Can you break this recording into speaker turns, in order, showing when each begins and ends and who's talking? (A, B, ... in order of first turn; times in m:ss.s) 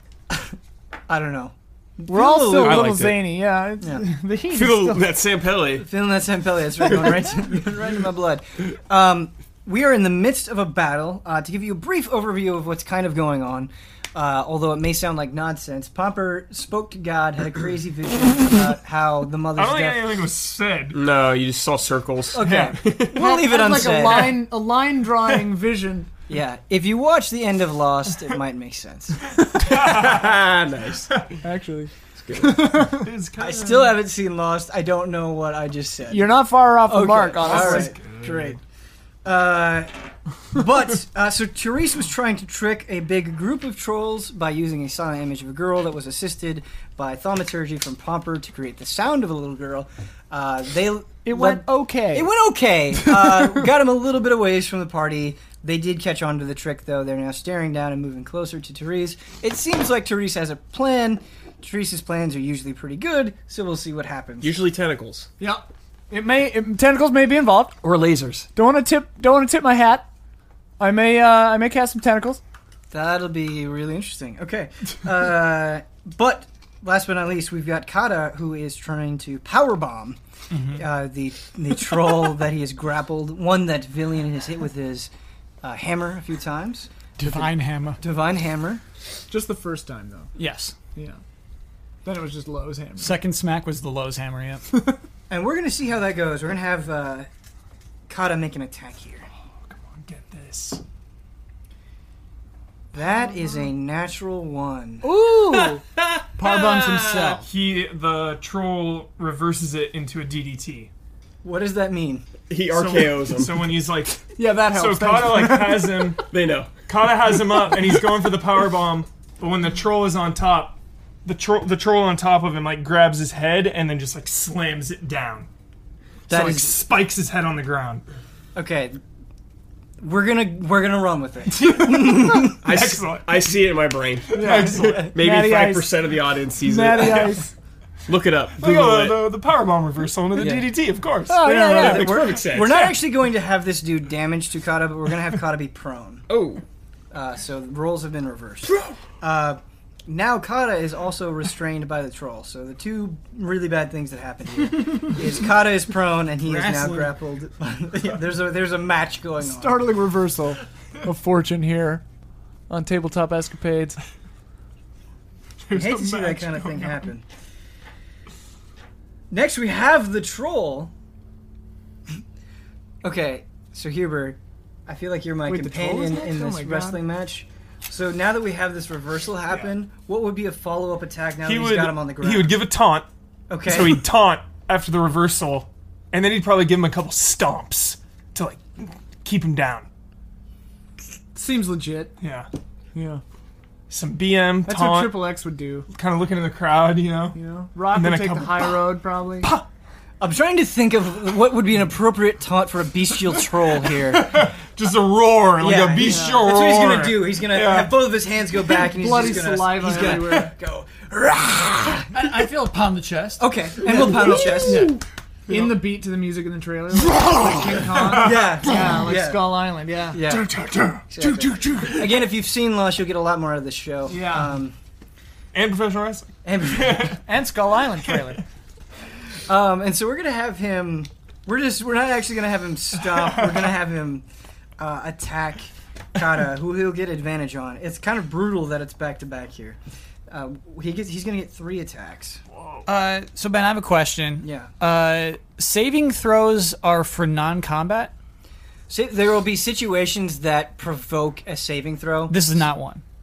0:01.1-0:03.0 A
0:02.1-0:05.0 B
0:02.6-0:03.2 C
0:04.5-0:05.9 C
0:05.7-0:20.0 A
0:19.5-0:21.0 D
0:20.9-0:23.2 C
0:22.3-0:24.4 A
0:22.4-0:26.1 B
0:26.3-0:29.3 A
0:29.5-0:31.3 C
0:29.7-0:30.2 D
0:31.4-0:33.1 B
0:32.2-0:32.9 C
0:32.9-0:34.0 D
0:33.4-0:36.3 A
0:36.1-0:37.9 B
0:36.8-0:38.6 A
0:37.4-0:38.5 D
0:39.2-0:39.9 A
0:40.5-1:04.6 A
0:51.2-0:52.3 B
1:04.4-1:05.3 C
1:05.4-1:07.8 B
1:07.8-1:08.5 C
1:08.6-1:10.1 B
1:10.8-1:12.4 B
1:12.9-1:20.2 A
1:20.5-1:20.8 E
1:20.7-1:25.1 A
1:25.6-1:27.5 A
1:27.2-1:28.0 E
1:28.0-1:28.8 A
1:29.3-1:30.3 B
1:30.4-1:30.7 E
1:30.9-1:31.2 B
1:32.0-1:33.2 B
1:33.0-1:34.6 E
1:35.3-1:37.3 A
1:38.1-1:39.3 A
1:39.6-1:40.8 D
1:42.9-1:45.1 A
1:45.0-1:45.8 B
1:45.4-1:47.4 C
1:46.4-1:47.5 B
1:46.5-1:47.4 E
1:47.4-1:50.9 D
1:51.4-1:52.3 A
1:52.5-1:53.6 C
1:52.7-1:56.2 D
1:54.3-1:56.2 B
1:56.3-1:56.9 C
1:56.9-2:05.5 D
2:06.3-2:06.7 A
2:06.3-2:08.0 D
2:08.5-2:09.0 A
2:10.0-2:12.6 A
2:11.6-2:12.1 B
2:12.6-2:13.5 D
2:12.6-2:17.4 C
2:14.3-2:15.1 D
2:14.3-2:15.9 B
2:16.6-2:17.5 B
2:18.0-2:19.2 C
2:18.6-2:22.9 D
2:20.4-2:20.6 C
2:21.3-2:22.2 B
2:21.7-2:26.3 A
2:21.7-2:22.9 C
2:26.3-2:26.6 C
2:27.1-2:39.8 A
2:28.7-2:28.9 D
2:36.4-2:37.1 B
2:39.4-2:42.0 B
2:42.7-2:44.0 B
2:45.6-2:47.1 D
2:45.7-2:47.2 A
2:49.3-2:50.9 A
2:53.0-3:02.5 A
2:55.5-2:57.0 B
3:01.4-3:03.0 D
3:03.5-3:04.0 A
3:03.6-3:09.9 D
3:11.3-3:12.1 B
3:12.2-3:12.5 D
3:12.9-3:13.2 B
3:13.9-3:15.2 D
3:14.6-3:15.9 B
3:15.9-3:17.4 D
3:17.3-3:19.5 B
3:17.9-3:18.8 D
3:20.2-3:24.4 A
3:23.8-3:27.9 D
3:25.6-3:32.1 A
3:26.0-3:26.4 B
3:28.9-3:30.5 B
3:32.1-3:33.5 E
3:33.4-3:34.9 A
3:33.9-3:35.0 D
3:35.5-3:40.2 B
3:36.9-3:38.9 D
3:38.1-3:39.5 A
3:40.1-3:40.5 A
3:40.2-3:42.2 D
3:41.1-3:44.8 A
3:44.1-3:44.5 B
3:45.5-3:47.2 D
3:46.4-3:47.2 A
3:47.2-3:48.4 B
3:49.5-3:54.2 A
3:54.8-3:59.8 A
4:00.3-4:02.4 A
4:02.6-4:02.8 D
4:02.8-4:08.1 E
4:04.4-4:04.7 A
4:08.9-4:12.4 A
4:12.3-4:13.0 E